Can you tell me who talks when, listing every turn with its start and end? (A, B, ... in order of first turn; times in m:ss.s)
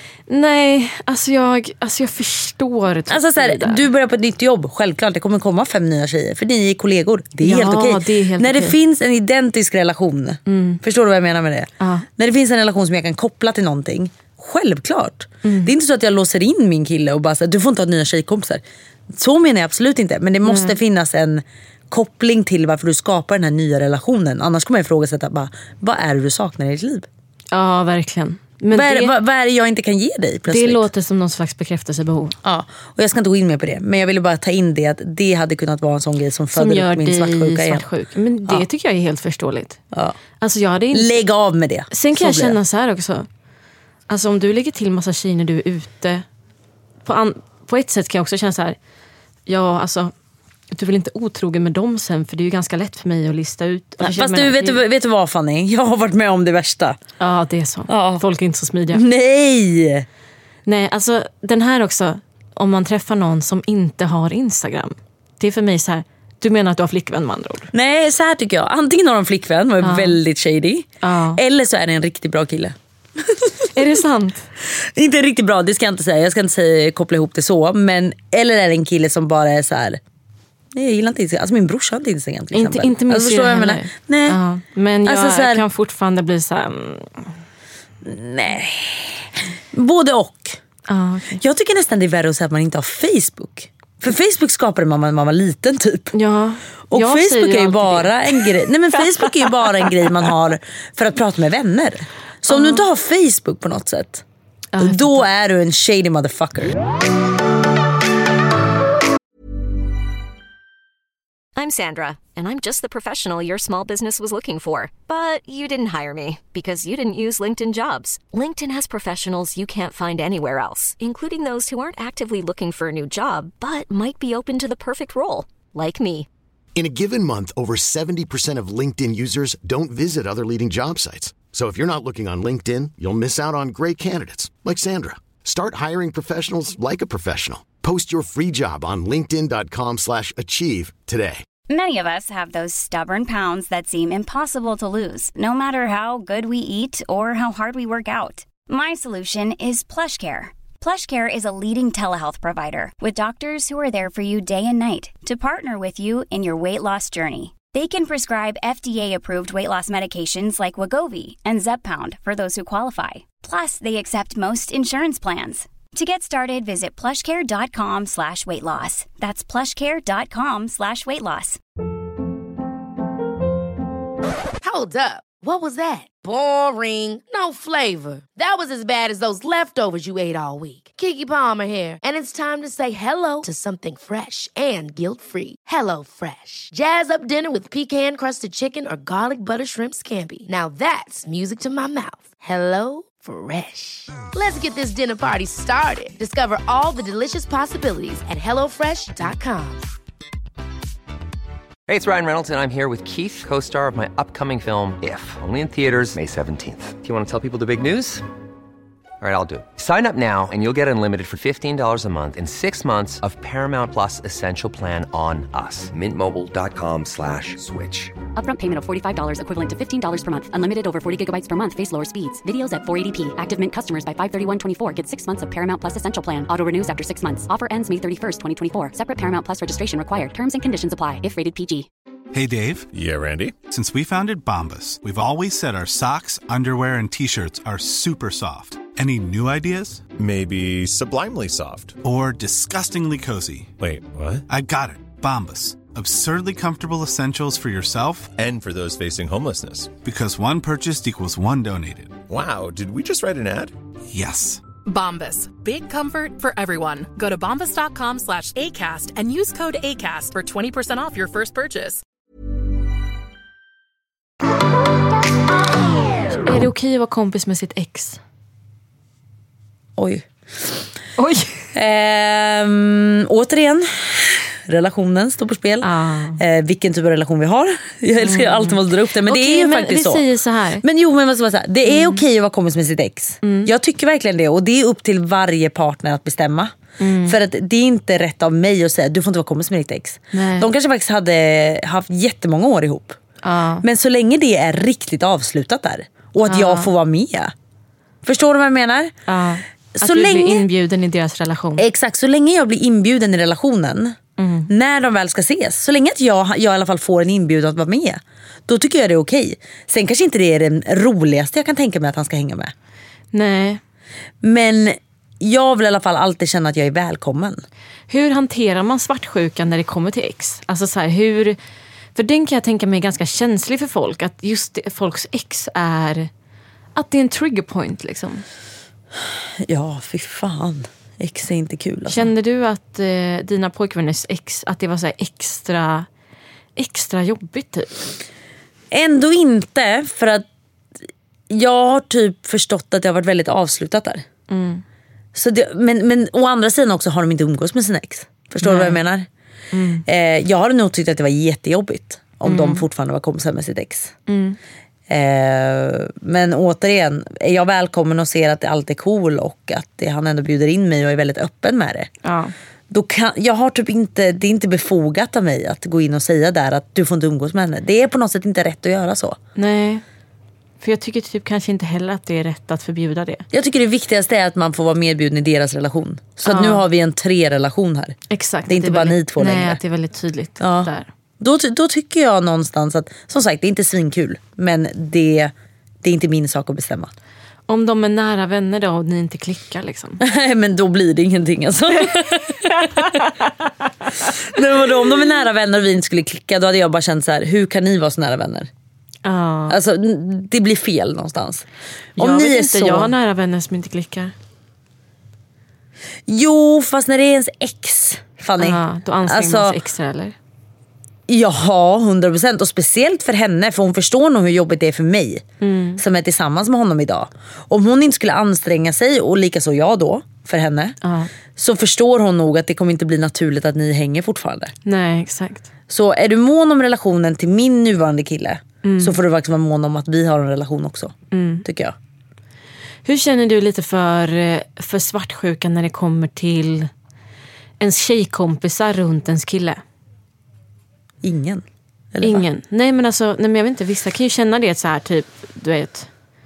0:00.3-0:03.8 A
0:03.1-0:27.1 B
0:07.4-0:08.8 A
0:10.4-0:10.8 A
0:11.8-0:12.0 A
0:15.4-0:15.7 A
0:20.4-0:20.8 A
0:27.5-0:29.1 A
0:28.7-0:30.8 B
0:30.5-0:32.4 A
0:32.4-0:37.8 B
0:36.5-0:39.8 A
0:39.9-0:40.2 B
0:40.4-0:41.1 A
0:40.9-0:42.6 B
0:41.9-0:43.3 A
0:44.1-0:46.2 A
0:47.0-0:48.8 A
0:49.4-0:50.1 A
0:50.7-0:54.8 A
0:54.0-0:57.0 B
0:57.2-0:59.0 A
0:57.9-0:58.2 B
0:58.9-1:00.0 B
1:00.6-1:07.7 A
1:07.7-1:13.6 B
1:09.8-1:10.2 A
1:11.0-1:11.4 A
1:13.7-1:14.5 A
1:14.6-1:20.0 B
1:20.7-1:24.4 B
1:22.5-1:27.3 A
1:25.0-1:25.6 B
1:28.0-1:30.6 B
1:30.9-1:31.4 A
1:31.4-1:36.1 B
1:36.1-1:38.5 A
1:36.9-1:44.2 B
1:39.2-1:39.4 A
1:42.5-1:42.8 A
1:44.7-1:45.2 A
1:44.8-1:46.8 B
1:51.6-2:06.3 C
2:06.7-2:21.4 D
2:21.7-2:51.6 E
2:54.6-3:19.9 F
3:21.9-3:28.2 G
3:29.2-3:38.2 G
3:38.3-3:51.9 H
3:52.3-3:52.9 I
3:52.9-3:53.6 J
3:53.7-4:00.1 I
4:00.2-4:02.0 J
4:02.0-4:03.7 I
4:03.8-4:04.4 J
4:04.5-4:08.3 I
4:08.4-4:09.9 J
4:10.0-4:12.2 I
4:12.3-4:13.7 J
4:14.1-4:14.6 I
4:14.8-4:22.0 K
4:26.4-4:28.2 A
4:30.0-4:30.7 B
4:31.2-4:31.6 A
4:31.7-4:40.2 B
4:35.8-4:36.4 A
4:38.2-4:40.8 A
4:40.8-4:53.2 B
4:41.9-4:42.2 A
4:43.4-4:43.7 A
4:47.0-4:47.4 A
4:50.3-4:50.7 A
4:53.4-4:53.8 A
4:53.8-4:57.5 B
4:56.4-4:56.9 A
4:58.2-4:59.1 B
4:59.3-5:01.8 A
4:59.9-5:00.6 B
5:01.8-5:04.2 B
5:04.4-5:04.7 A
5:04.7-5:12.7 B
5:13.3-5:13.8 A
5:14.4-5:17.6 B
5:18.1-5:21.6 A
5:22.1-5:26.3 A
5:26.9-5:28.4 A
5:29.6-5:32.3 B
5:32.1-5:36.1 A
5:36.8-5:38.0 A
5:38.9-5:40.4 B
5:41.5-5:44.2 B
5:44.5-5:44.8 A
5:45.3-5:49.3 B
5:48.6-5:49.0 A
5:49.7-5:50.0 A
5:50.0-5:54.1 B
5:52.4-5:52.8 A
5:54.3-5:54.6 A
5:55.1-6:02.1 B
6:02.2-6:02.5 A
6:02.9-6:09.4 B
6:09.6-6:10.0 A
6:10.8-6:13.4 A
6:13.5-6:18.2 B
6:16.4-6:16.8 A
6:18.3-6:21.1 A
6:18.7-6:19.8 B
6:20.6-6:27.1 B
6:27.7-6:30.2 A
6:30.2-6:33.2 B
6:32.6-6:33.3 A
6:34.3-6:38.7 B
6:39.2-6:39.8 A
6:39.7-6:41.6 B
6:42.2-6:43.1 B
6:42.2-6:44.3 A
6:46.3-6:49.8 B
6:48.6-6:50.3 A
6:51.3-6:55.4 B
6:55.6-6:56.0 A
6:56.0-7:01.0 B
7:01.0-7:01.3 A
7:01.6-7:04.7 B
7:04.8-7:05.7 A
7:05.9-7:11.9 B
7:08.8-7:09.2 A
7:11.3-7:11.6 A
7:13.0-7:16.9 A
7:17.8-7:19.8 A
7:21.2-7:22.4 B
7:22.2-7:26.1 A